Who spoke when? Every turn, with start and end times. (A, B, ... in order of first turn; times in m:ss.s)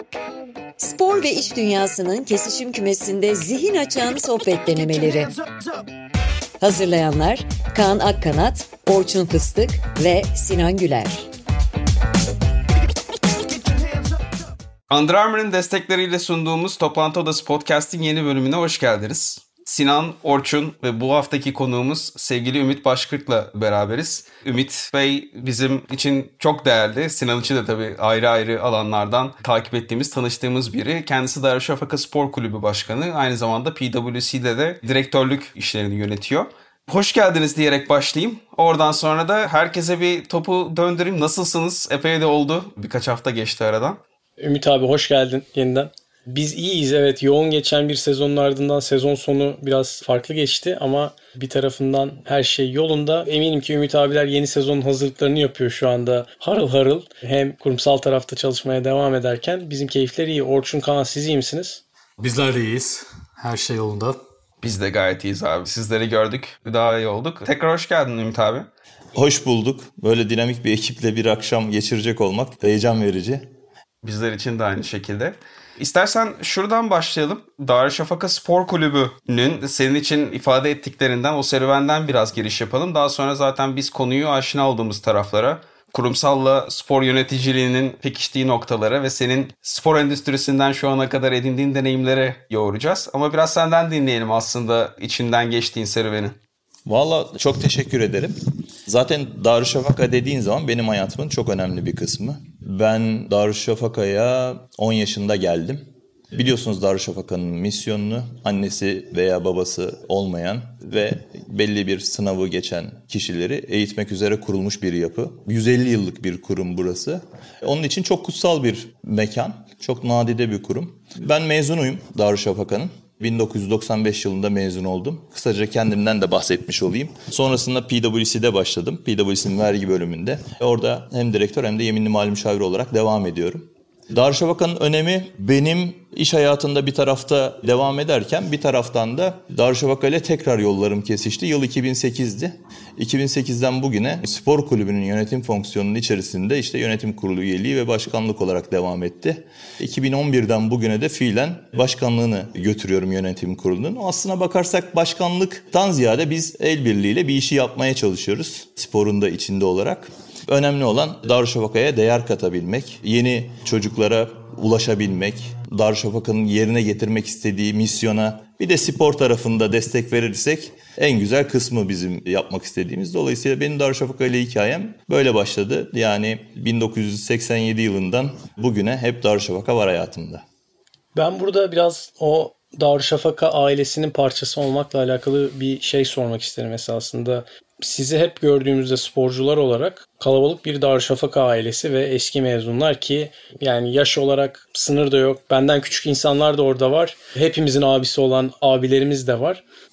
0:00.8-0:05.3 A
0:06.6-0:11.3 A
0:14.9-0:44.0 B
0:44.4-1:01.8 C
1:02.2-1:04.2 D
1:04.6-1:08.7 B
1:09.1-1:13.5 E
1:14.0-1:36.4 B
1:36.8-1:38.3 E
1:38.8-3:00.4 E
3:01.1-3:19.6 C